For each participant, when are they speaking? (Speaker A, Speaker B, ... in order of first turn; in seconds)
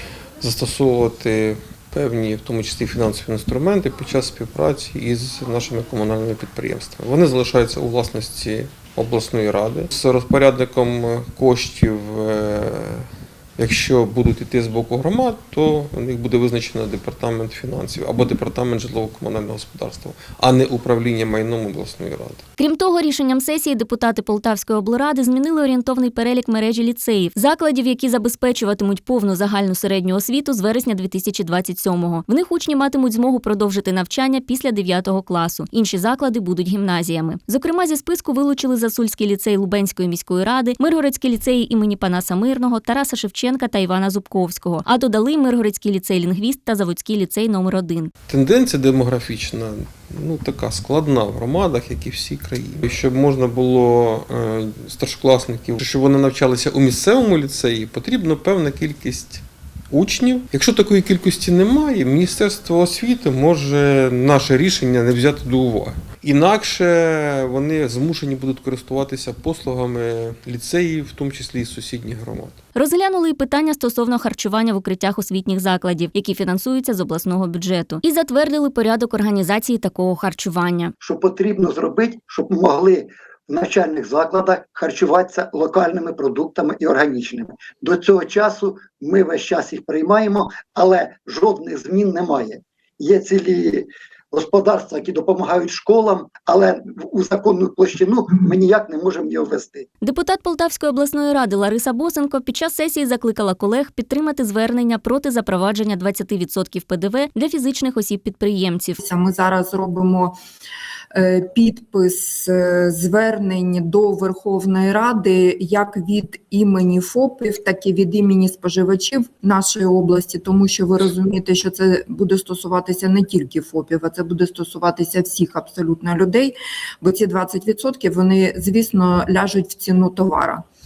Speaker A: 0.4-22.4, 48.3-72.6
Speaker B: 22.6-48.1, 72.7-80.9, 100.0-109.0
Speaker C: 81.0-99.9
Speaker D: 109.0-110.3, 111.1-130.6